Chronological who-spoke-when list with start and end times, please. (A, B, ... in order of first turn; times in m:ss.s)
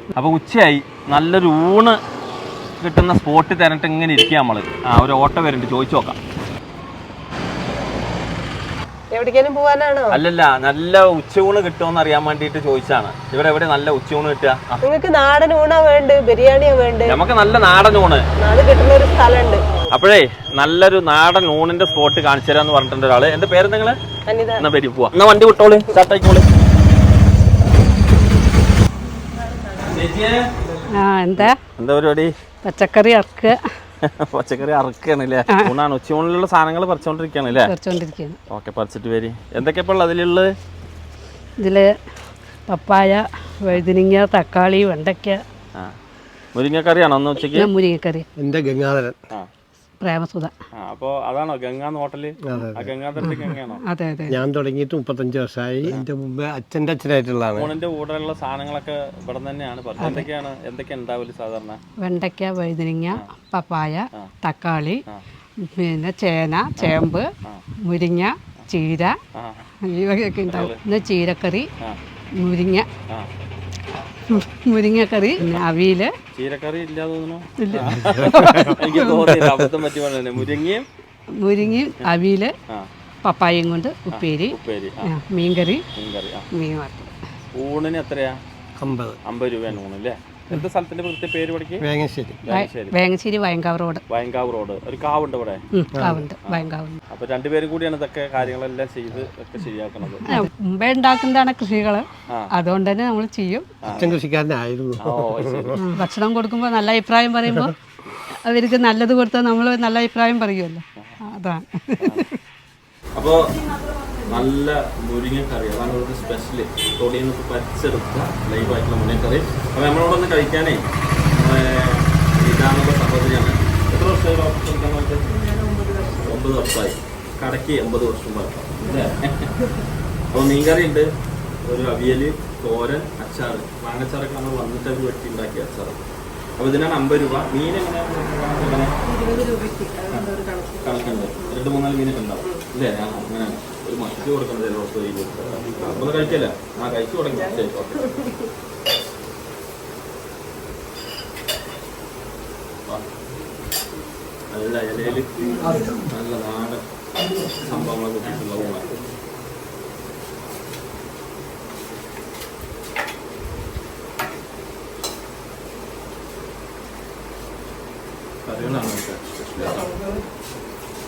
0:00.1-0:02.0 A
0:02.8-0:06.2 A
0:09.1-0:10.2 B
0:10.1-0:14.8 A
0:14.8-0:17.2 B
0:17.0-0:18.3 A
0:18.4-0:19.9 B
0:19.9-0:24.0 A
0:24.3-0:24.6 B
0:24.6-0:26.5 A
0:29.3-0:30.0 B
0:29.8-0:30.4 A
0:30.9-0:31.6 C
0:31.4-0:32.3 A
0:32.6-0:33.6 C
0:34.0-0:37.7 A
0:37.6-0:38.4 C
0:38.5-0:40.5 A
0:41.6-0:42.0 C
0:42.7-0:45.4 C
0:46.5-0:47.7 A
0:47.5-0:48.2 C
0:48.4-0:49.2 D
0:50.0-0:50.5 C
0:50.7-0:53.8 A
0:52.4-0:52.9 D
0:53.2-0:54.4 C
0:54.3-0:57.7 D
0:57.6-1:01.8 A
1:00.0-1:00.3 C
1:02.0-1:05.0 C
1:05.6-1:07.3 C
1:06.8-1:07.6 A
1:07.8-1:09.2 C
1:09.3-1:09.6 A
1:09.8-1:11.7 C
1:10.5-1:10.8 A
1:12.4-1:12.9 C
1:14.3-1:16.1 C
1:16.3-1:20.8 A
1:17.6-1:19.3 C
1:17.8-1:19.7 D
1:21.3-1:22.5 C
1:23.2-1:25.8 C
1:24.1-1:25.1 A
1:26.0-1:26.5 A
1:26.5-1:27.1 C
1:27.5-1:28.4 A
1:28.8-1:29.2 D
1:29.2-1:31.8 A
1:31.8-1:32.4 D
1:32.4-1:32.9 A
1:32.5-1:34.0 C
1:34.1-1:35.6 A
1:35.7-1:37.0 C
1:35.9-1:36.2 D
1:36.4-1:40.3 A
1:40.3-1:43.7 C
1:43.8-1:44.1 A
1:43.9-1:45.9 D
1:45.0-1:45.8 A
1:45.8-1:47.7 C
1:47.5-1:47.7 D
1:48.4-1:52.3 C
1:52.0-1:52.2 A
1:53.2-1:53.6 A
1:54.2-2:05.2 A
2:05.3-2:06.4 B
2:06.2-2:09.5 A
2:08.8-2:09.1 B
2:10.3-2:11.1 A
2:11.6-2:16.0 A
2:16.6-2:18.9 A
2:19.0-2:21.6 B
2:20.8-2:28.0 A
2:27.3-2:28.5 B
2:34.5-2:36.8 A
2:35.4-2:36.0 B
2:37.5-2:38.9 A
2:48.4-2:49.9 A